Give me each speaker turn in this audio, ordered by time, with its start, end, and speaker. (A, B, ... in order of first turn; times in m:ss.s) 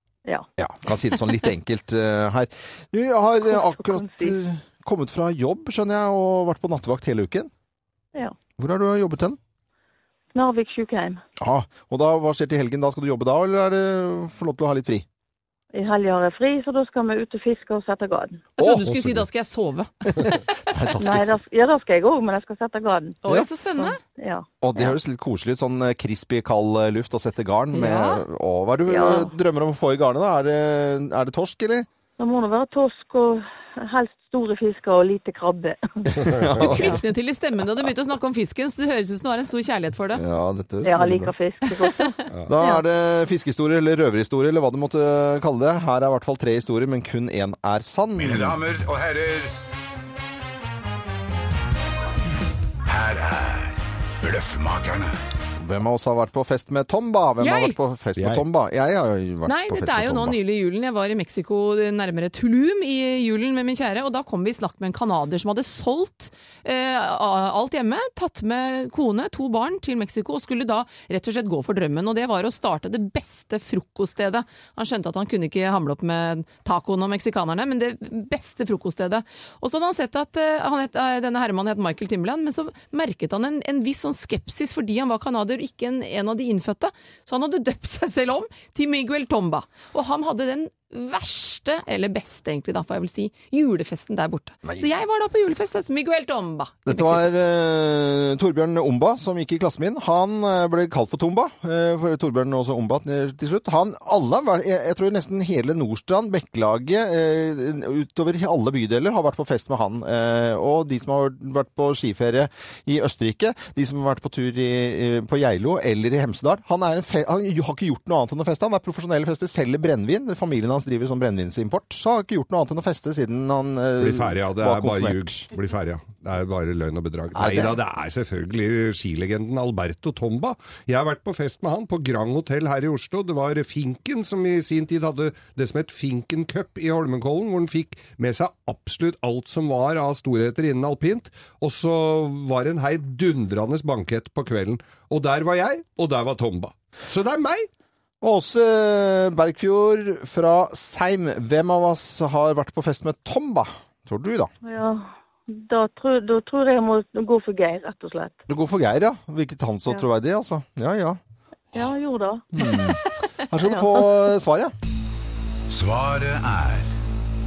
0:00.6-0:07.5 A
0:03.5-0:04.3 B
0:08.6-0:09.4 A
0:10.3-0:11.2 B
0:11.4-0:15.0 A
0:15.7-0:18.4 B
0:18.6-0:20.4 C
0:18.6-0:19.2 A
0:20.2-0:21.4 A
0:21.0-0:23.2 B
0:23.2-0:24.0 C
0:23.8-0:24.4 B
0:24.6-0:31.9 A
0:27.7-0:28.2 C
0:28.9-0:29.3 B
0:32.2-0:36.3 B
0:36.1-0:37.0 A
0:36.6-0:40.2 C
0:40.1-0:41.3 A
0:40.8-0:42.8 B
0:42.4-0:48.6 A
0:48.2-0:49.5 D
0:52.8-0:55.1 D
0:55.6-1:00.4 A
0:57.4-0:57.8 C
0:58.2-0:58.4 E
0:59.4-1:37.2 C
1:36.8-2:05.5 A
2:04.0-2:27.7 E
2:07.3-2:07.8 A
2:28.2-2:34.5 A
2:34.6-2:38.4 B
2:38.5-2:41.2 A
2:41.7-2:43.0 B
2:42.5-2:44.7 A
2:43.6-2:44.0 B
2:45.7-2:46.9 D